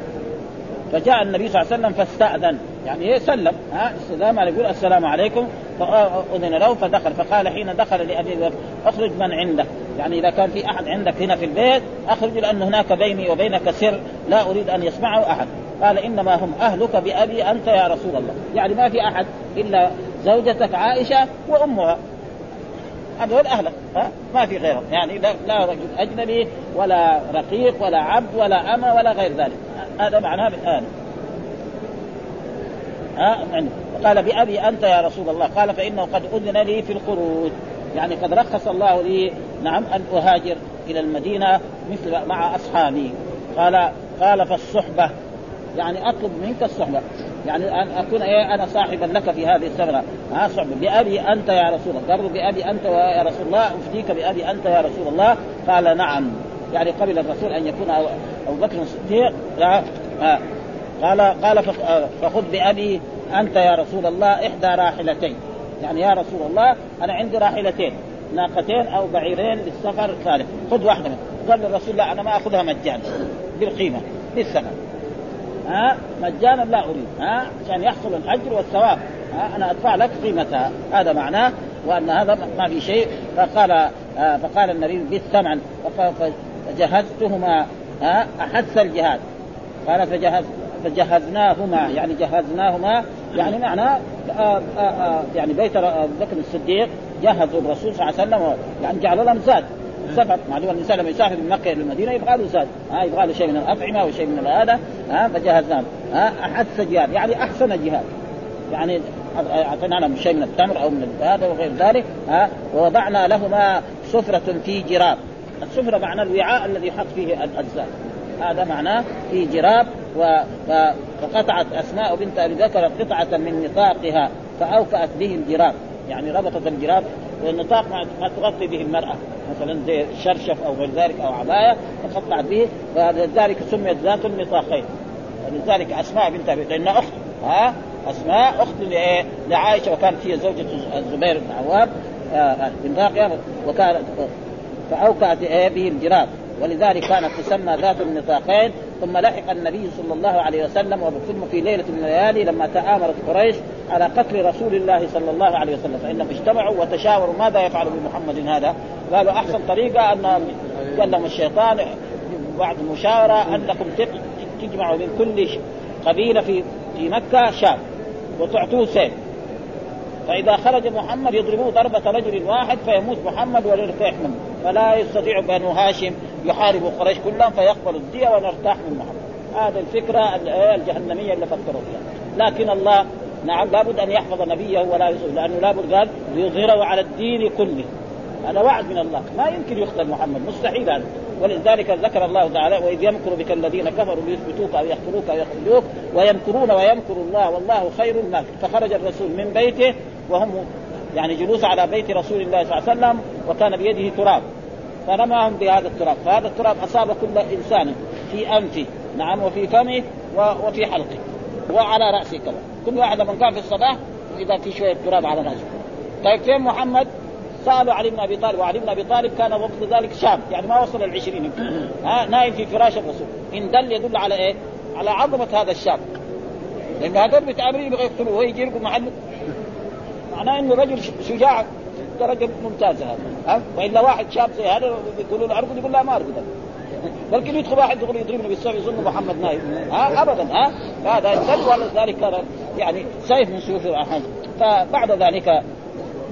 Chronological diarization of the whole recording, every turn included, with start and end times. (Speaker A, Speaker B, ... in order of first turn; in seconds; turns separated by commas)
Speaker A: 0.9-22.0, Speaker A: 23.2-30.9, Speaker A: 33.2-45.1, Speaker A: 45.8-60.4, Speaker A: 61.0-74.7, Speaker A: 75.7-89.2, Speaker A: 89.8-108.1, Speaker A: 108.7-134.9, Speaker A: 135.4-144.3, Speaker A: 144.9-167.8, Speaker A: 168.4-169.1, Speaker A: 170.3-187.9, Speaker A: 188.4-204.4, Speaker A: 205.1-217.1, Speaker A: 217.6-226.0, Speaker A: 227.0-229.1, Speaker A: 230.3-236.5, Speaker A: 237.3-245.6